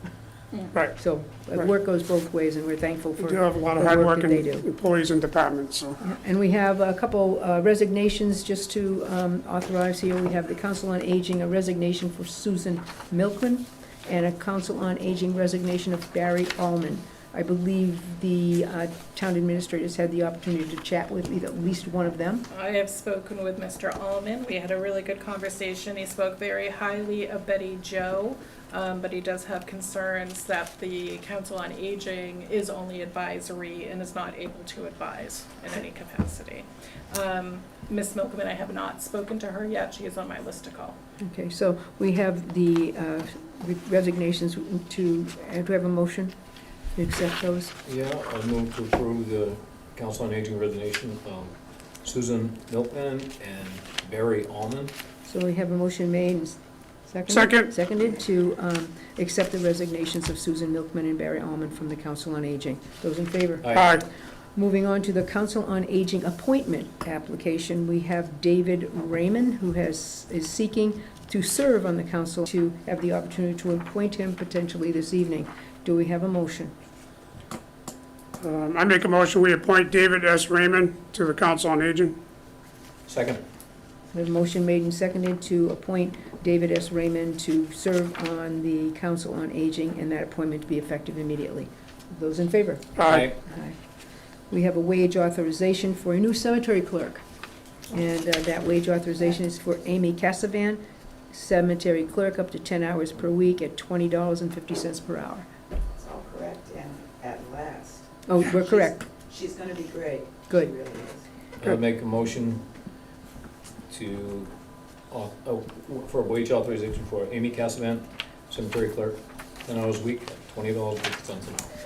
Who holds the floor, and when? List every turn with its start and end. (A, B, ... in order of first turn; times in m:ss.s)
0:00.7-0:01.0 A
0:01.0-0:04.7 B
0:03.2-0:06.0 A
0:06.0-0:22.5 B
0:22.5-0:41.0 C
0:41.2-0:46.3 B
0:47.0-0:47.7 B
0:47.8-0:54.9 D
0:55.3-1:04.0 B
0:57.3-0:57.7 A
1:03.8-1:04.0 A
1:04.6-1:16.7 B
1:18.4-1:22.2 A
1:23.1-1:23.4 D
1:24.1-1:33.8 B
1:33.0-1:33.2 A
1:33.0-1:33.4 D
1:34.5-1:37.2 B
1:37.9-1:45.5 B
1:45.9-1:51.2 E
1:48.3-1:49.0 B
1:50.5-1:50.7 B
1:51.6-1:52.7 D
1:53.9-1:54.5 D
1:55.1-2:01.7 D